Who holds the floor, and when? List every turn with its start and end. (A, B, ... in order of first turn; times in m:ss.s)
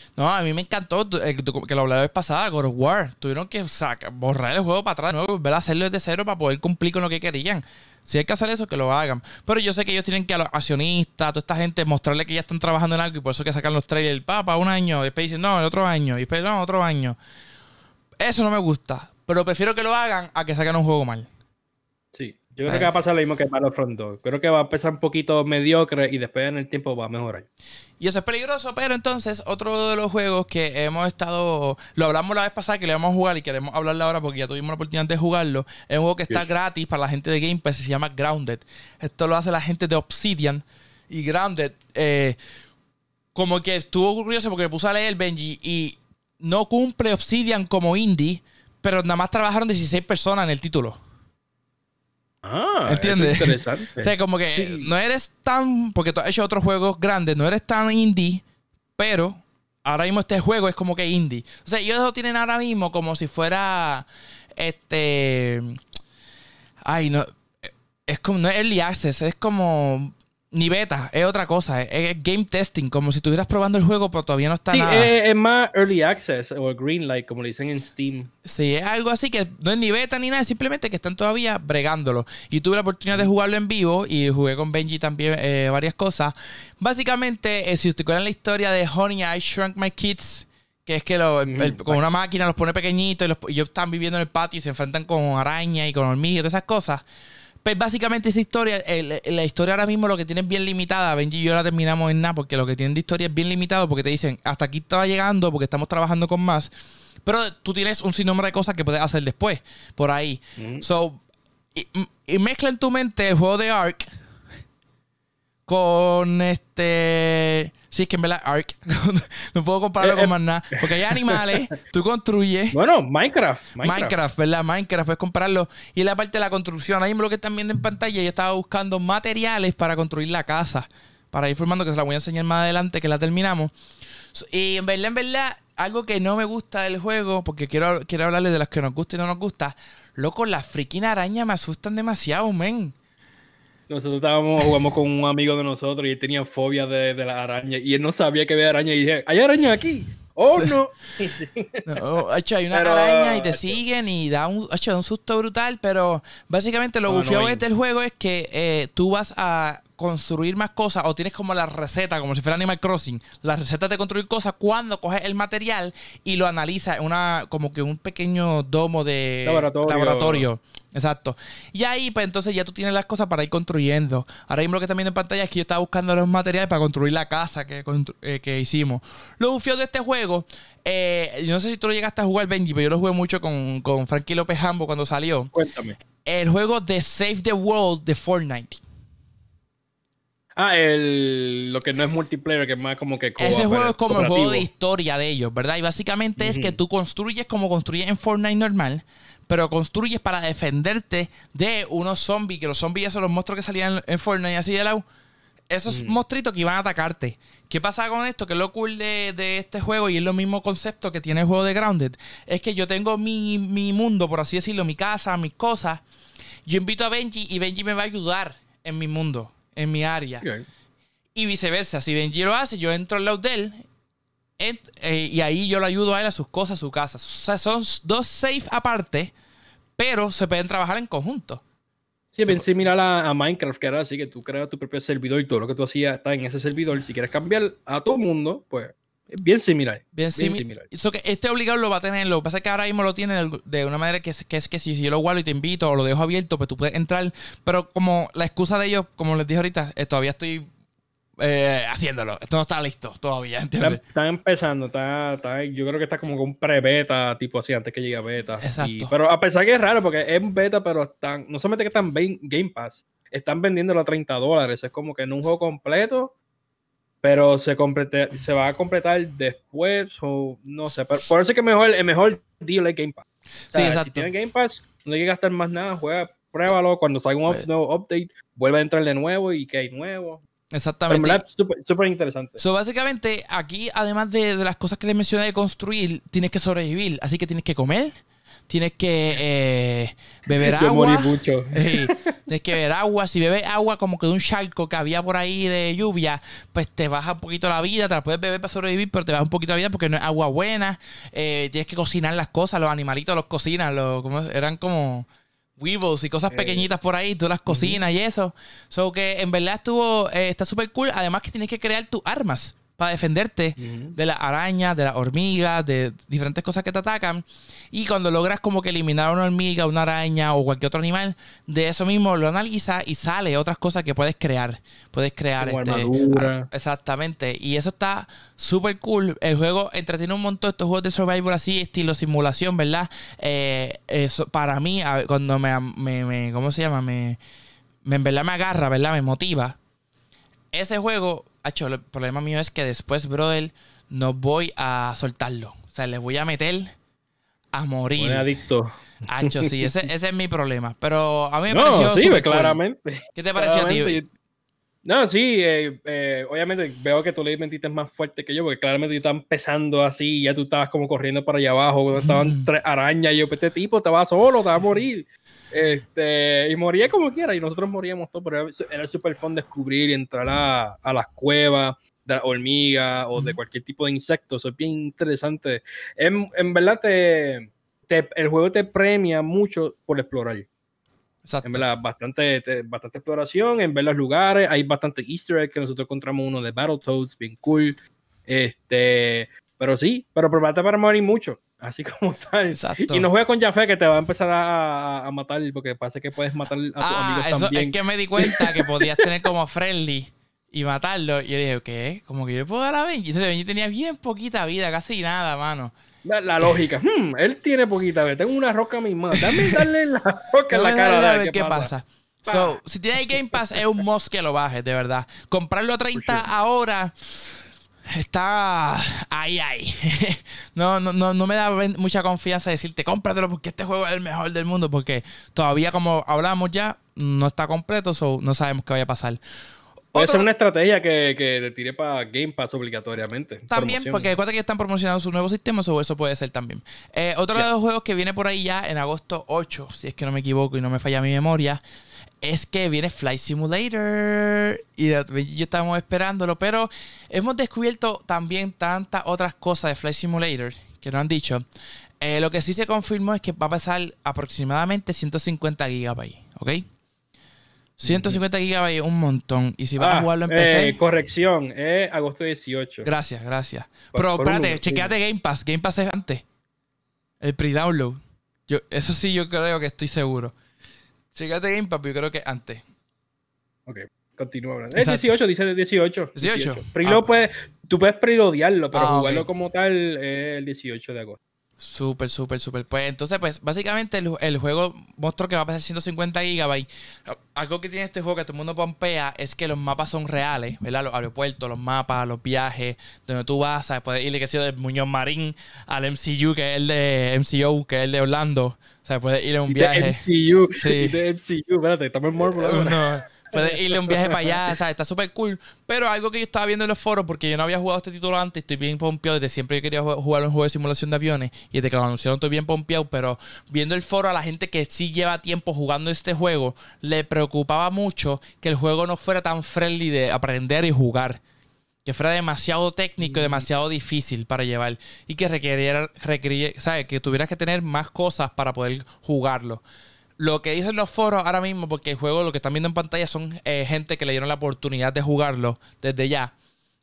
0:00.2-0:17.2 A
0:18.2-0:21.3 A
0:22.1-0:27.5 B
0:22.7-0:22.9 A
0:28.0-0:42.4 A
0:36.3-0:36.5 B
0:43.4-0:51.0 A
0:52.4-0:54.9 B
0:52.9-0:58.4 A
0:59.0-1:05.8 A
1:06.8-1:15.1 A
1:14.7-1:18.3 B
1:18.4-1:37.0 A
1:31.4-1:32.0 B
1:37.6-1:46.7 A
1:47.2-1:51.2 A
1:50.6-1:50.9 B
1:51.7-1:54.1 A
1:55.7-2:02.8 A
2:00.0-2:01.7 B
2:02.7-2:04.2 B
2:03.8-2:13.7 A
2:14.3-2:23.0 A
2:23.9-2:32.1 B
2:31.9-3:05.5 A
2:32.7-2:33.8 B
2:37.1-2:37.6 B
2:49.4-2:50.5 B
3:05.5-3:06.0 B
3:06.2-3:08.8 A
3:10.6-3:14.7 B
3:13.4-3:25.0 A
3:16.4-3:16.8 B
3:25.7-3:36.0 A
3:25.9-3:26.2 B
3:36.6-3:40.5 A
3:40.4-3:40.7 B
3:41.4-3:43.8 A
3:44.6-3:49.3 A
3:50.0-3:51.6 A
3:52.3-4:00.9 B
4:00.1-4:10.7 A
4:11.4-4:14.0 A
4:13.8-4:26.4 B
4:18.6-4:19.1 A
4:27.2-4:40.4 B
4:33.7-4:34.3 A
4:40.7-4:41.4 A
4:41.1-4:42.6 B
4:42.6-4:48.1 A
4:48.7-5:05.3 A
4:50.5-4:52.4 B
5:05.8-5:37.4 A
5:06.5-5:06.9 B
5:07.7-5:08.0 B
5:13.8-5:14.2 B
5:25.6-5:26.7 B
5:38.0-5:39.8 A
5:40.7-5:46.9 A
5:47.7-5:48.5 A
5:48.2-5:50.1 B
5:49.3-5:52.8 A
5:51.7-5:54.3 B
5:53.4-5:54.2 A
5:55.0-6:20.7 B
6:02.2-6:02.7 A
6:21.4-6:21.8 A
6:21.6-6:39.3 B
6:32.7-6:33.3 A
6:37.0-6:45.9 A
6:46.2-6:51.9 B
6:49.4-6:49.9 A
6:50.7-6:57.5 A
6:52.5-6:54.0 B
6:56.1-6:56.5 B
6:58.1-7:09.4 A
7:10.1-7:10.5 A
7:10.2-7:14.3 B
7:13.7-7:21.8 A
7:22.4-7:31.6 A
7:32.2-7:36.8 A
7:38.0-7:41.0 A
7:38.0-7:38.4 B
7:40.0-7:43.1 B
7:43.0-7:46.4 A
7:44.1-7:45.2 B
7:47.4-7:50.6 A
7:51.3-7:52.8 A
7:53.9-8:01.4 B
7:55.0-7:55.3 A
7:56.4-7:57.3 A
7:58.9-7:59.5 A
8:01.8-8:20.2 A
8:19.7-8:24.6 B
8:20.7-8:21.2 A
8:22.4-8:41.4 A
8:42.0-8:49.8 A
8:43.2-8:43.7 B
8:50.4-8:56.5 A